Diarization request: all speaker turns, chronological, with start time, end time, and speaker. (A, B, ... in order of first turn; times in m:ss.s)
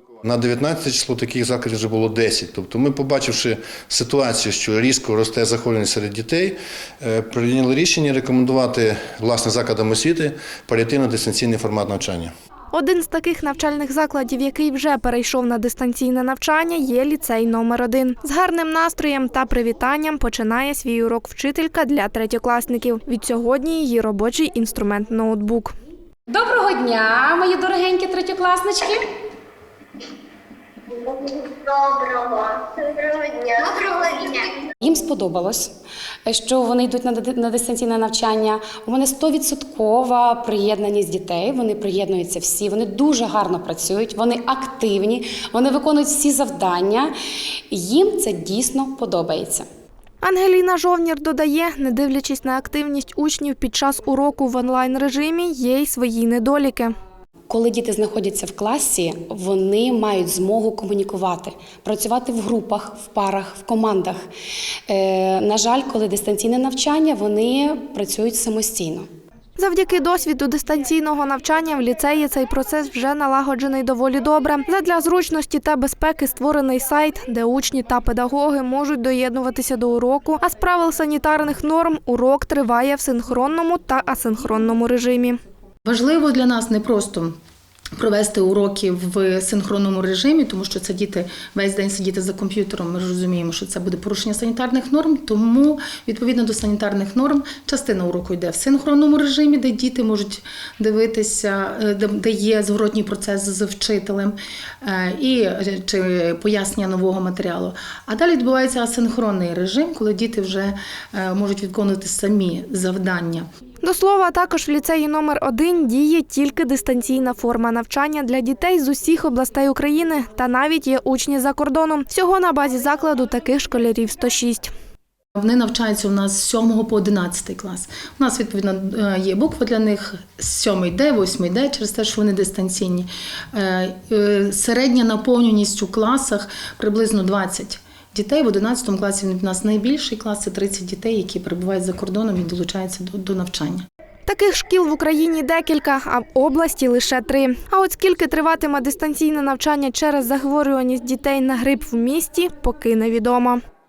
0:00.2-0:12.3 A
0:12.7-0:25.7 B
0:26.3-0:29.0 C
0:30.9-0:34.7 D
0:34.8-0:35.7 C
0:36.3-0:47.1 C
0:47.7-0:49.7 C
0:50.2-0:56.9 B
0:57.5-1:04.2 C
1:04.9-1:09.1 C
1:09.6-1:25.4 B
1:25.8-1:27.4 E
1:28.0-1:53.5 E
1:53.8-2:04.7 B
2:05.4-2:23.8 E
2:24.3-2:33.6 B